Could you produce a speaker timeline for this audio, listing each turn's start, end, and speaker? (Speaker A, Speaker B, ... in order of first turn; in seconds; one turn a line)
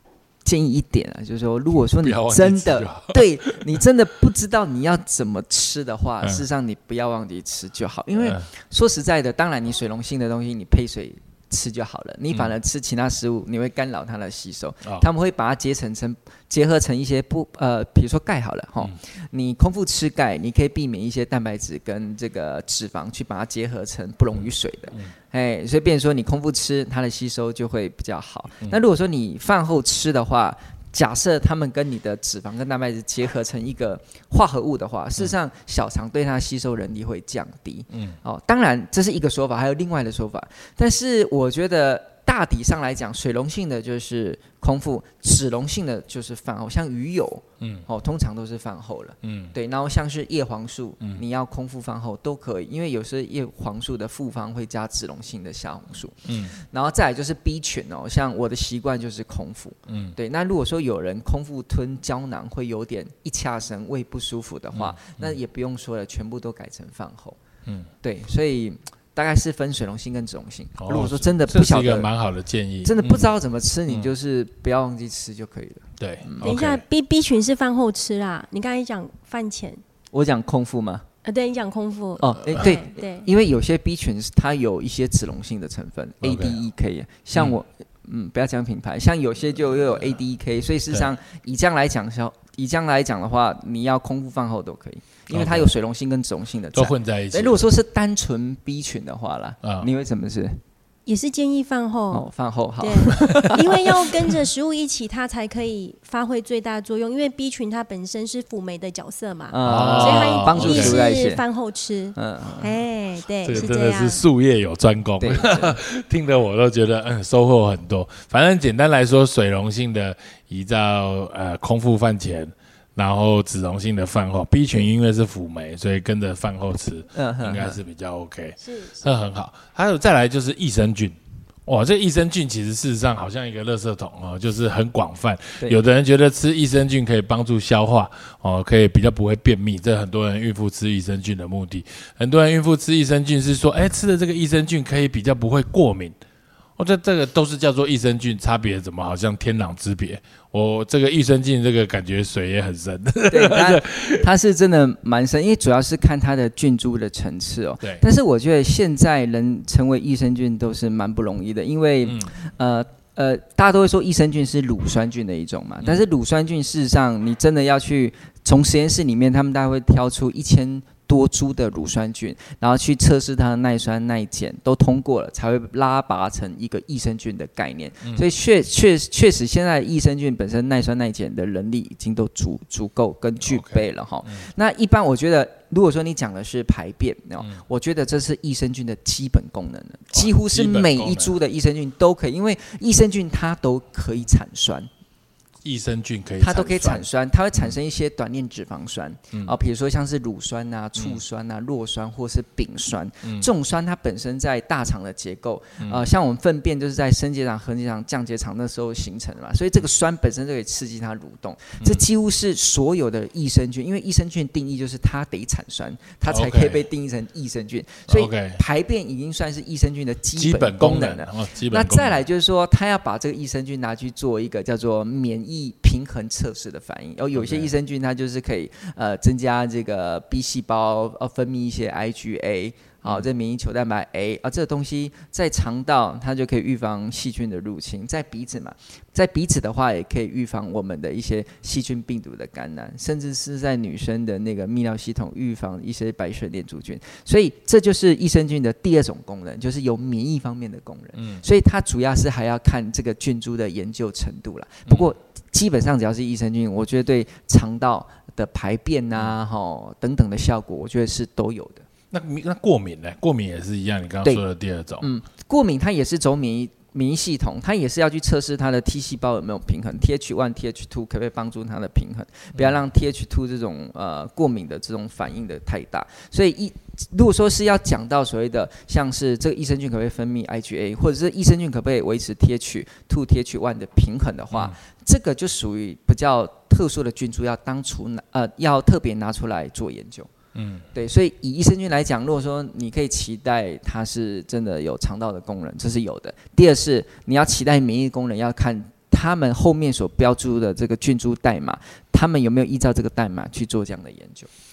Speaker A: 0.4-67.4
Speaker B: 2.0-3.6
Speaker B: 8.2-8.4
Speaker B: 37.9-38.2
Speaker B: 47.6-47.9
Speaker B: 49.2-49.5
Speaker B: 56.2-56.5
Speaker B: 59.9-60.1
Speaker B: 64.7-65.4
Speaker A: 68.0-72.1
Speaker B: 70.8-73.3
Speaker A: 72.8-76.5
Speaker B: 76.0-76.8
Speaker C: 76.4-79.8
Speaker A: 80.1-81.0
Speaker C: 81.2-83.2
Speaker A: 82.2-100.6
Speaker B: 86.2-86.6
Speaker B: 95.3-95.7
Speaker B: 96.7-97.7
Speaker C: 101.0-102.2
Speaker A: 102.1-104.0
Speaker C: 102.8-114.2
Speaker A: 109.5-111.4
Speaker B: 109.6-111.0
Speaker A: 112.1-112.7
Speaker B: 113.4-146.2
Speaker A: 115.2-115.8
Speaker A: 127.1-127.8
Speaker C: 128.6-129.0
Speaker B: 146.8-154.2
Speaker A: 153.3-194.9
Speaker B: 162.0-162.3
Speaker B: 183.4-184.5
Speaker B: 190.1-191.3
Speaker B: 195.6-197.7
Speaker A: 196.4-261.9
Speaker B: 216.3-216.8
Speaker B: 218.1-218.6
Speaker B: 220.3-222.2
Speaker B: 227.3-227.7
Speaker B: 251.2-251.4
Speaker B: 254.9-255.1
Speaker B: 262.1-265.1
Speaker A: 265.0-290.3
Speaker B: 290.5-290.9
Speaker A: 290.9-304.5